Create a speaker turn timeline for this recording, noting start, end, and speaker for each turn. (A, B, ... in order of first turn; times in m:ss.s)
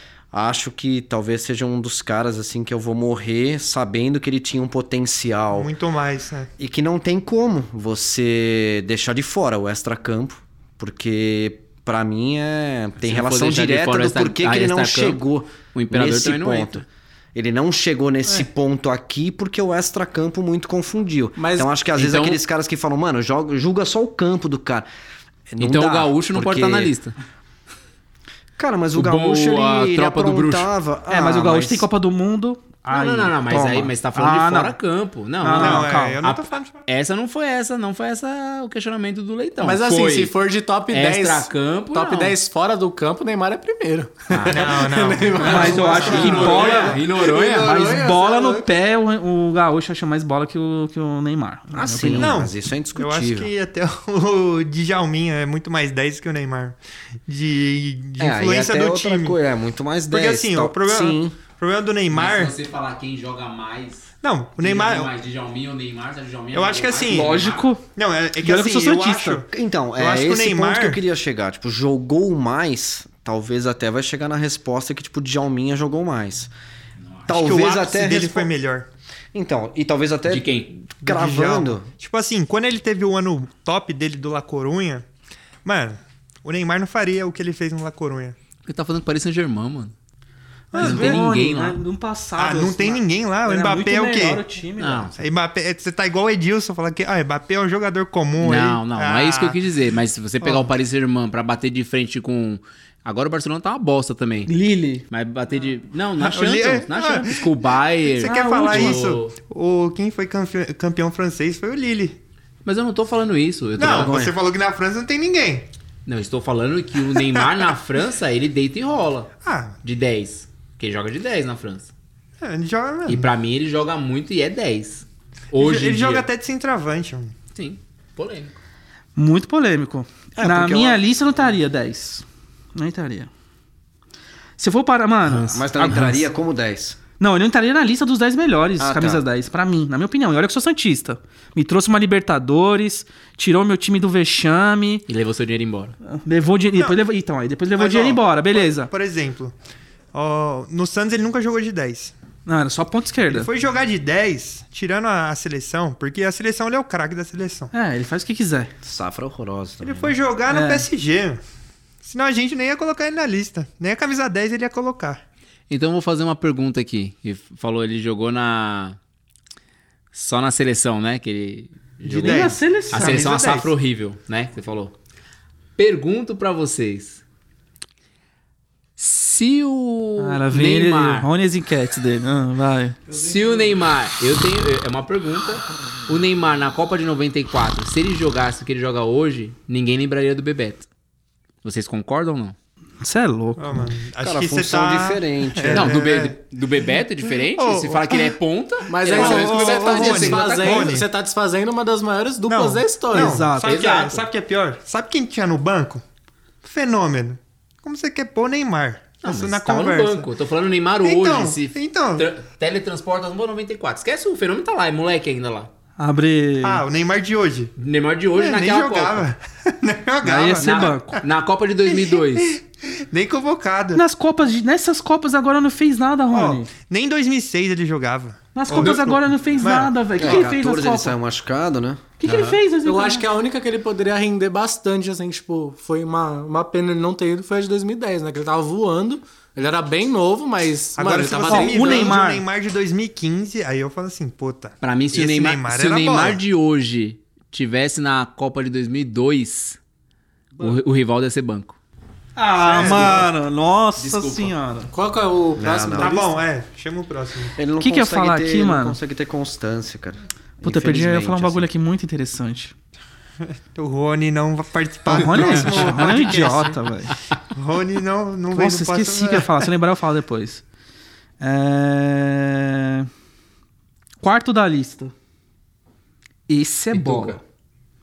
0:00.3-0:05.7 A
0:05.5-0:06.5 B
0:06.6-0:24.9 A
0:13.0-0:16.8 C
0:21.4-0:21.8 D
0:21.9-0:22.4 C
0:25.5-0:26.9 A
0:25.6-0:27.1 C
0:28.6-0:31.9 A
0:28.9-0:30.7 C
0:31.1-0:34.8 E
0:32.9-0:40.4 C
0:33.5-0:33.9 A
0:35.4-0:36.2 E
0:35.5-0:36.9 B
0:39.6-0:48.7 D
0:40.9-0:42.4 C
0:44.3-0:44.8 C
0:44.5-0:47.0 B
0:45.3-0:47.9 C
0:45.4-0:47.0 E
0:47.5-0:52.4 E
0:51.7-0:53.5 A
0:52.1-0:59.4 B
0:58.2-1:01.4 A
1:00.1-1:02.6 B
1:02.1-1:07.6 C
1:04.2-1:05.1 B
1:06.5-1:07.4 B
1:07.1-1:07.8 E
1:08.0-1:11.0 B
1:08.4-1:09.4 E
1:09.5-1:16.5 A
1:17.3-1:18.5 A
1:17.3-1:18.9 B
1:19.3-1:21.9 A
1:20.3-1:20.7 C
1:21.0-1:25.0 B
1:25.6-1:28.4 B
1:28.6-1:29.9 C
1:30.7-1:31.2 B
1:30.7-1:35.2 E
1:30.8-1:31.8 C
1:32.4-1:34.4 B
1:34.8-1:35.2 C
1:35.2-1:39.6 B
1:38.4-1:44.5 C
1:40.4-1:40.7 B
1:44.5-1:45.0 E
1:45.1-1:49.4 C
1:46.2-1:47.5 B
1:48.1-1:52.2 B
1:48.2-1:49.1 E
1:52.6-1:54.2 C
1:53.8-1:55.7 B
1:53.8-1:54.4 A
1:56.1-1:59.3 C
1:59.4-1:59.8 B
1:59.8-2:01.9 C
2:02.4-2:03.3 B
2:03.1-2:06.3 C
2:05.6-2:07.3 B
2:07.5-2:08.6 C
2:09.2-2:13.3 E
2:10.4-2:11.0 A
2:14.6-2:16.2 E
2:15.3-2:16.2 C
2:15.5-2:17.0 A
2:17.2-2:25.0 E
2:18.8-2:19.2 A
2:25.1-2:26.0 C
2:26.0-2:28.9 E
2:27.8-2:29.5 B
2:30.1-2:32.1 B
2:32.4-2:33.5 E
2:33.3-2:37.7 B
2:37.7-2:38.7 E
2:38.8-2:40.1 A
2:39.8-2:41.4 B
2:40.5-2:40.9 E
2:42.0-2:45.2 B
2:45.7-2:49.0 C
2:50.1-2:54.9 C
2:52.1-2:53.4 E
2:52.1-2:53.7 B
2:55.8-2:57.2 C
2:59.0-3:01.3 C
3:00.2-3:03.0 E
3:03.1-3:10.9 C
3:11.6-3:12.6 C
3:13.0-3:13.9 E
3:13.6-3:16.4 B
3:14.2-3:15.9 A
3:15.7-3:21.0 C
3:17.3-3:18.4 B
3:18.9-3:23.5 D
3:19.1-3:21.1 B
3:22.5-3:26.0 B
3:23.1-3:23.8 E
3:23.6-3:24.3 C
3:26.6-3:30.3 B
3:29.2-3:35.7 C
3:31.0-3:32.3 B
3:36.0-3:36.8 E
3:36.6-3:37.7 B
3:37.8-3:39.3 C
3:38.4-3:41.2 B
3:40.2-3:41.2 E
3:40.6-3:42.6 C
3:41.9-3:44.0 B
3:43.9-3:46.7 E
3:46.3-3:50.4 B
3:48.6-3:51.1 E
3:48.7-3:49.0 C
3:50.2-3:52.1 A
3:52.2-3:53.3 E
3:52.8-4:02.2 D
4:01.0-4:06.4 B
4:01.5-4:02.4 E
4:04.8-4:09.8 C
4:10.6-4:11.8 C
4:12.4-4:14.9 E
4:12.6-4:13.3 B
4:14.0-4:14.5 C
4:14.9-4:16.3 D
4:15.6-4:16.2 A
4:16.0-4:17.6 B
4:17.6-4:21.7 A
4:17.8-4:19.0 E
4:20.6-4:22.7 E
4:23.7-4:26.8 B
4:25.1-4:27.1 E
4:25.3-4:26.2 C
4:27.5-4:29.7 B
4:28.5-4:30.6 E
4:31.4-4:33.1 E
4:34.2-4:35.1 E
4:36.5-4:37.4 E
4:36.9-4:37.4 C